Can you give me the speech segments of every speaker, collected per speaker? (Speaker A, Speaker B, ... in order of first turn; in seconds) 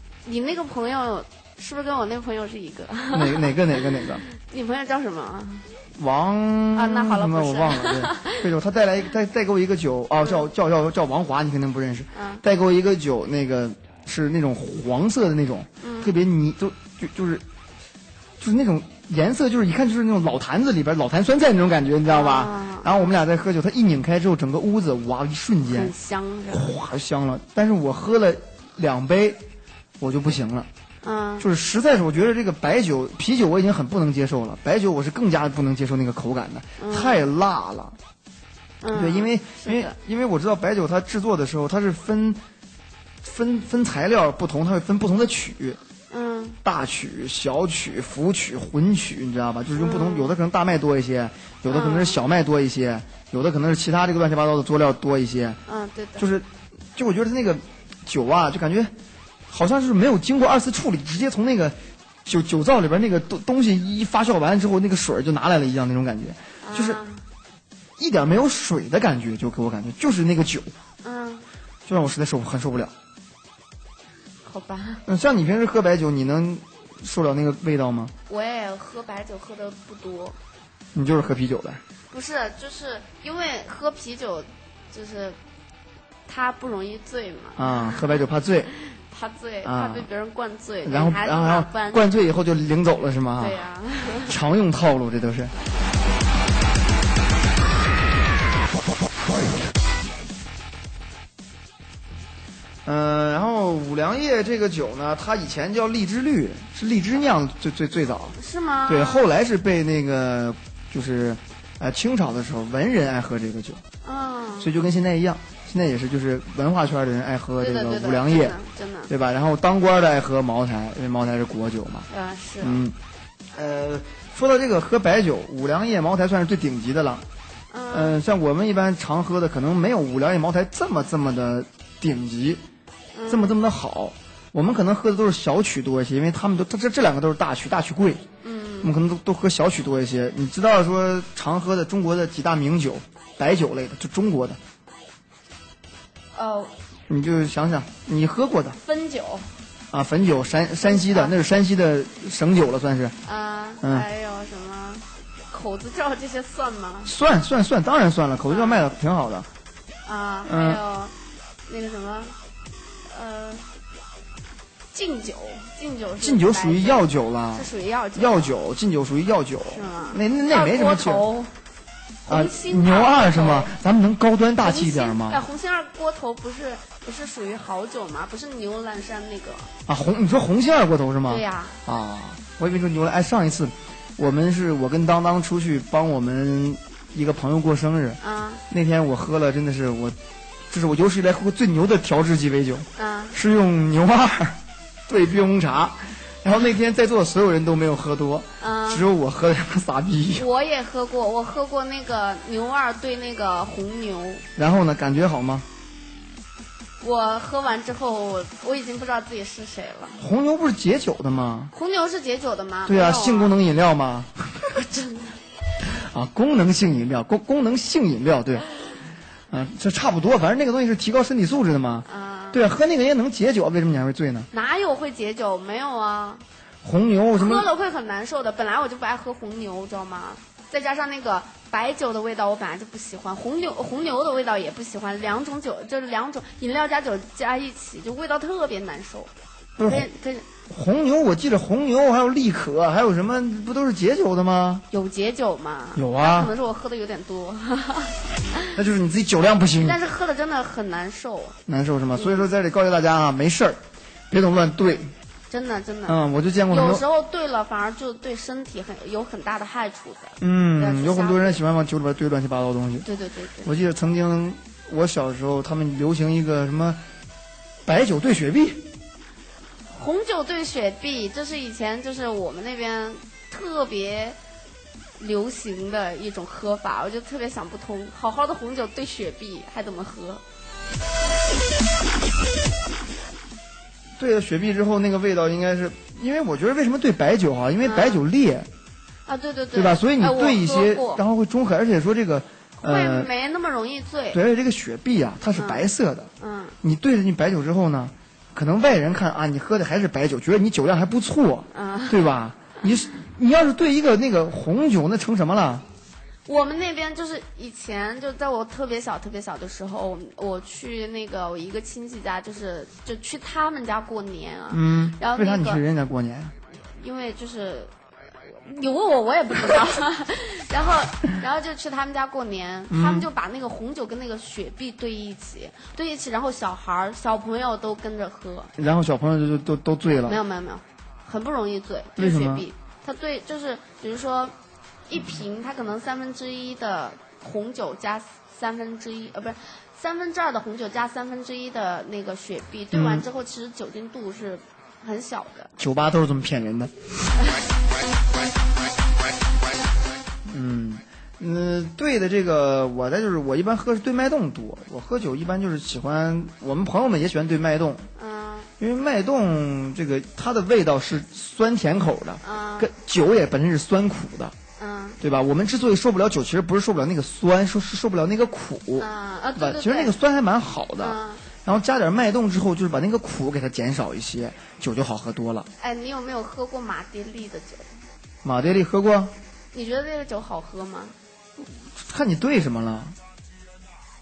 Speaker A: 0.2-3.5, 4.3-5.7, 6.8-8.5, 12.1-12.4, 15.8-16.1, 22.1-23.1, 25.7-26.7, 31.0-31.4, 36.8-37.2, 38.8-40.0, 46.1-46.6, 49.7-50.4, 51.7-52.2, 55.7-56.3, 66.6-67.2, 71.0-71.5, 74.5-75.0, 78.3-80.4, 82.1-85.4, 86.3-88.1, 89.1-92.1, 93.4-94.3, 108.3-109.3, 114.0-114.7, 117.6-119.1, 122.1-122.8, 127.7-128.2, 133.1-133.6, 138.4-138.9, 146.3-146.7, 148.8-149.5, 150.8-151.4, 153.2-157.1, 158.5-158.9, 160.1-161.1, 161.7-162.4, 163.1-163.6, 164.9-168.5, 169.7-171.5, 172.3-173.7, 174.6-179.7, 181.3-181.8, 188.2-188.6, 192.9-193.4, 198.6-199.1, 200.3-204.4, 207.0-210.2, 211.7-213.6, 214.7-215.4, 222.1-222.6, 224.5-226.4, 227.4-239.3, 239.9-240.5, 244.9-248.7, 249.8-251.6, 252.2-252.5, 255.5-256.2, 256.7-261.6, 263.1-263.7, 269.9-274.4, 275.2-280.4, 287.8-288.2, 289.3-291.2, 292.8-294.4, 295.6-295.9, 296.4-296.8, 301.7-302.2, 306.5-315.8, 316.7-328.7, 330.3-334.6, 335.1-345.7, 358.2-358.7, 362.4-362.9, 364.8-365.2, 369.0-370.1, 371.0-371.4, 375.8-378.0, 379.7-381.1
Speaker B: 3.1-4.2, 6.0-17.4, 18.4-25.9, 26.5-29.4, 30.0-30.7, 31.4-38.0, 38.9-42.4, 43.2-45.8, 46.6-55.6, 56.2-58.9, 59.5-67.0, 68.0-70.7, 71.9-72.9, 75.0-78.1, 80.9-81.8, 87.6-88.7, 89.6-90.1, 90.8-93.6, 94.3-95.5, 102.8-113.8, 114.6-118.6, 119.1-122.1, 122.6-123.0, 123.5-127.2, 127.9-132.6, 133.3-138.3, 138.8-144.6, 147.1-148.8, 149.9-153.2, 153.8-154.1, 157.1-159.5, 160.4-160.8, 166.2-171.3, 172.3-175.4, 179.9-188.2, 188.7-190.2, 190.7-200.5, 204.6-205.7, 210.2-211.7, 212.9-214.7, 215.8-218.6, 219.5-224.5, 226.8-227.7, 239.8-240.1, 240.7-244.8, 245.9-246.5, 248.7-250.0, 251.7-255.1, 256.1-257.0, 260.4-263.1, 263.6-267.0, 267.8-268.9, 284.2-288.7, 289.7-293.3, 294.3-296.3, 296.8-305.8, 314.7-316.5, 322.9-323.3, 328.8-330.4, 332.1-332.7, 342.9-343.3, 345.8-346.9, 350.5-358.1, 358.8-364.6, 365.2-375.7, 378.4-379.3, 381.6-383.1